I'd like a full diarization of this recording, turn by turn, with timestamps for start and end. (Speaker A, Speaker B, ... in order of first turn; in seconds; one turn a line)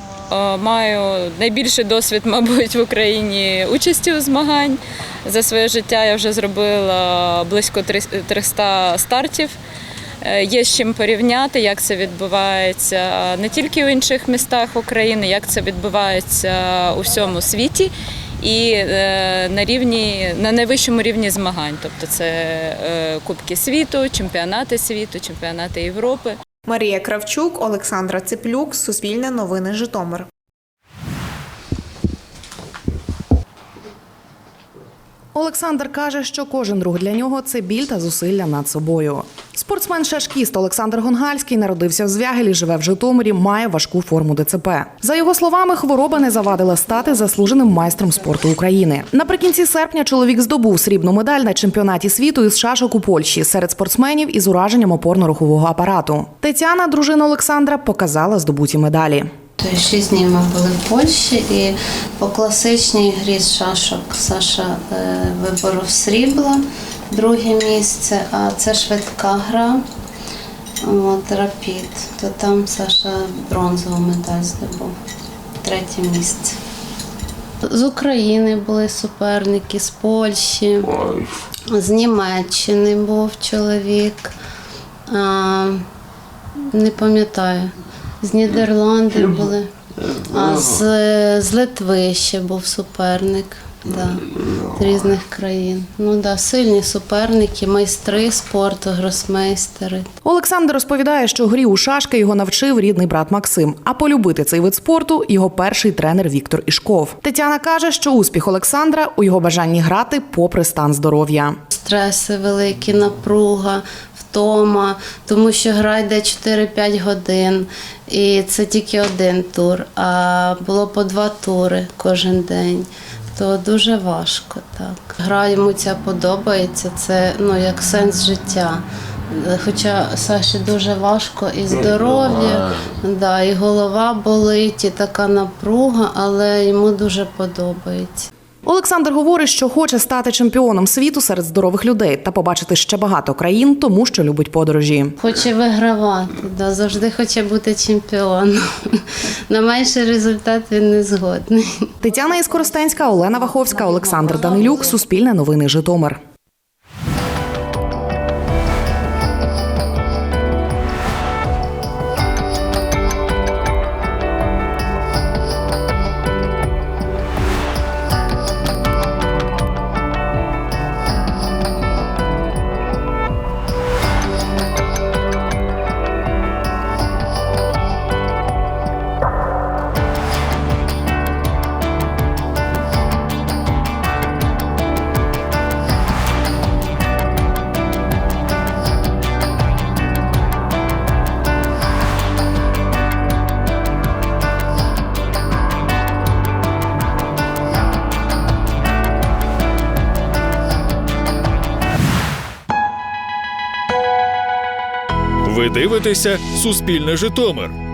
Speaker A: 0.3-9.6
Speaker A: 10.2-26.4
Speaker B: 26.7-30.2
Speaker C: 35.4-59.3
Speaker D: 59.6-69.8
Speaker D: 70.8-74.9
Speaker D: 75.6-76.6
Speaker D: 77.7-80.9
Speaker D: 81.7-84.3
Speaker D: 85.1-85.8
Speaker D: 86.7-87.7
Speaker D: 88.2-89.7
Speaker D: 90.3-94.2
Speaker D: 94.8-100.0
Speaker C: 100.2-111.6
Speaker D: 111.7-138.3
Speaker C: 138.7-145.2
Speaker D: 145.2-151.9
Speaker C: 152.0-156.2
Speaker D: 153.1-154.9
Speaker E: 205.5-207.7